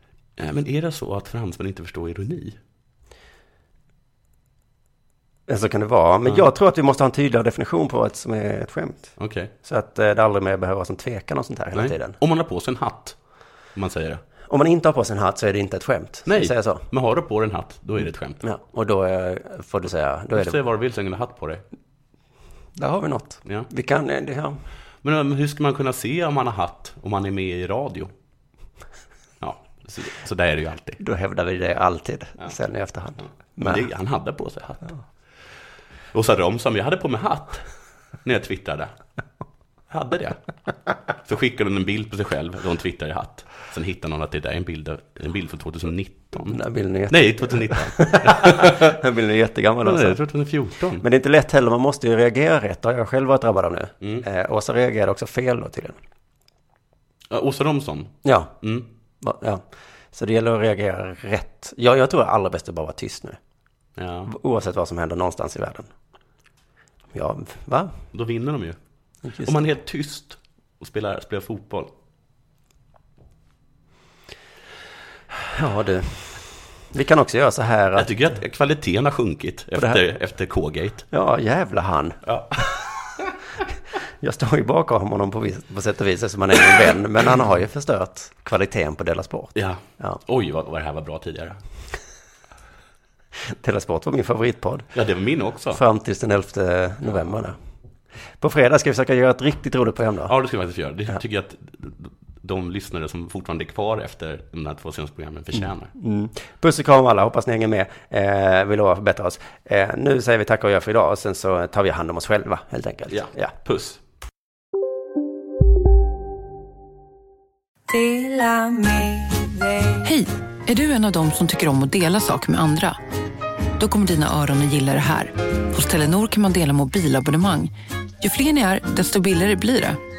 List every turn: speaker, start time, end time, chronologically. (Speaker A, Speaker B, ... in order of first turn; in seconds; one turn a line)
Speaker A: 0.4-2.6
Speaker B: 5.5-12.2
Speaker A: 9.2-9.5
Speaker A: 11.7-13.2
Speaker A: 13.7-14.2
Speaker B: 14.5-16.9
Speaker A: 16.2-18.4
Speaker B: 18.4-20.6
Speaker A: 20.3-21.6
Speaker B: 22.8-24.6
Speaker A: 25.0-28.1
Speaker A: 29.4-31.0
Speaker B: 31.0-33.8
Speaker A: 33.6-34.9
Speaker A: 36.1-37.7
Speaker A: 38.2-38.9
Speaker A: 39.9-40.4
Speaker A: 41.2-49.0
Speaker B: 46.4-50.2
Speaker A: 49.8-51.0
Speaker B: 51.0-56.0
Speaker A: 57.3-58.9
Speaker B: 58.2-58.5
Speaker B: 59.2-63.4
Speaker A: 64.0-64.3
Speaker B: 64.3-65.9
Speaker B: 67.1-67.9
Speaker A: 68.1-68.8
Speaker B: 69.2-69.6
Speaker A: 69.4-71.9
Speaker B: 75.4-78.3
Speaker A: 78.0-81.0
Speaker B: 79.8-80.0
Speaker B: 81.1-82.3
Speaker A: 82.2-82.6
Speaker B: 84.2-90.2
Speaker A: 89.5-91.6
Speaker B: 93.5-94.9
Speaker A: 94.9-95.8
Speaker B: 95.7-97.6
Speaker B: 98.4-100.3
Speaker A: 100.3-105.9
Speaker B: 105.9-113.5
Speaker A: 113.1-114.0
Speaker C: 120.0-123.0
Speaker C: 123.8-130.0